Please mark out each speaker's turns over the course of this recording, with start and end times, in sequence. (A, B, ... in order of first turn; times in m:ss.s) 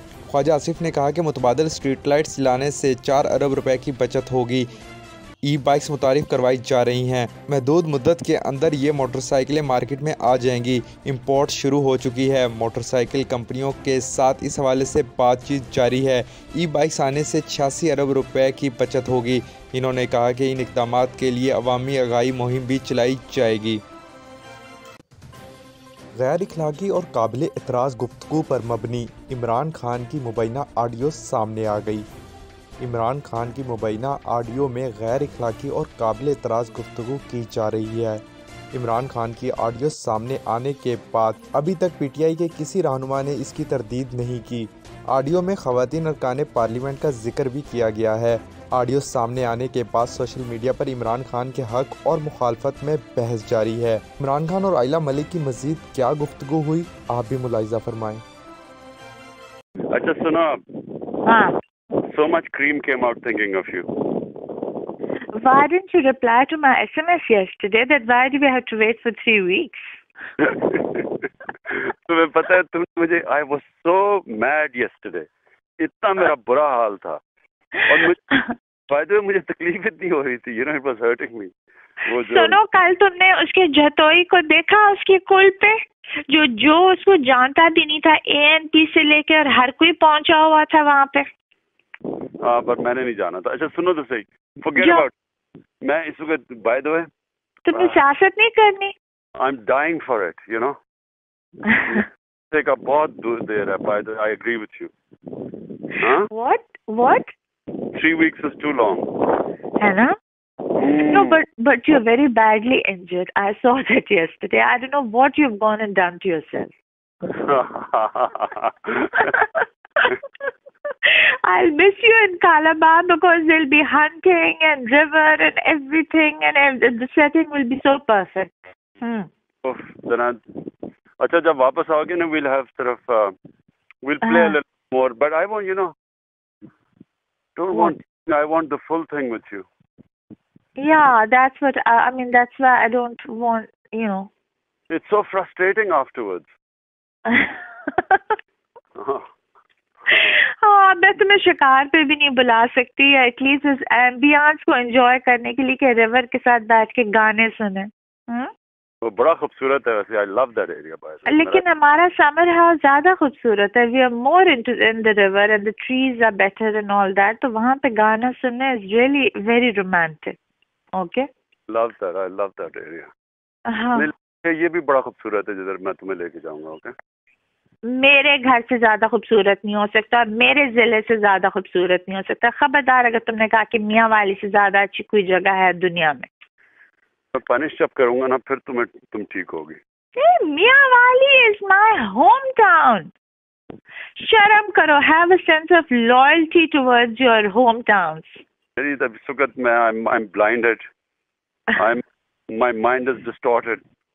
0:00.3-0:04.7 A
0:05.4-0:23.8 A
0:26.2-0:32.1 A
0:32.8-0:58.2 A
0:59.9-1:01.1 B
1:01.3-1:01.6 C
1:02.0-1:04.4 B
1:05.4-1:10.0 C
1:10.4-1:15.3 B
1:15.8-1:17.2 B
1:17.9-1:18.2 B
1:18.9-1:21.5 B
1:22.0-1:25.8 C
1:22.0-1:22.6 B
1:26.3-1:31.3 C
1:32.4-1:35.1 B
1:34.8-1:35.1 C
1:35.8-1:37.1 B
1:37.7-1:38.9 C
1:37.7-1:38.0 B
1:39.4-1:40.8 B
1:41.7-1:42.0 C
1:41.8-1:44.9 B
1:46.0-1:46.3 B
1:46.0-1:47.3 C
1:47.9-1:49.4 B
1:49.8-1:50.1 C
1:50.7-1:51.4 B
1:51.0-1:56.7 C
1:57.3-1:59.3 B
1:59.2-2:00.2 C
2:01.0-2:09.3 C
2:09.6-2:13.4 B
2:14.0-2:16.0 B
2:14.2-2:14.6 C
2:17.6-2:19.7 B
2:20.8-2:24.3 C
2:24.9-2:26.5 B
2:27.3-2:28.3 C
2:29.0-2:29.3 B
2:30.1-2:38.5 C
2:39.0-2:41.6 B
2:41.3-2:50.4 C
2:50.9-2:51.3 C
2:51.7-2:53.1 B
2:53.7-2:54.1 C
2:54.0-2:56.9 B
2:57.9-3:06.3 C
3:07.3-3:09.8 B
3:10.2-3:13.1 C
3:14.2-3:18.4 C
3:18.8-3:20.8 B
3:21.8-3:23.8 B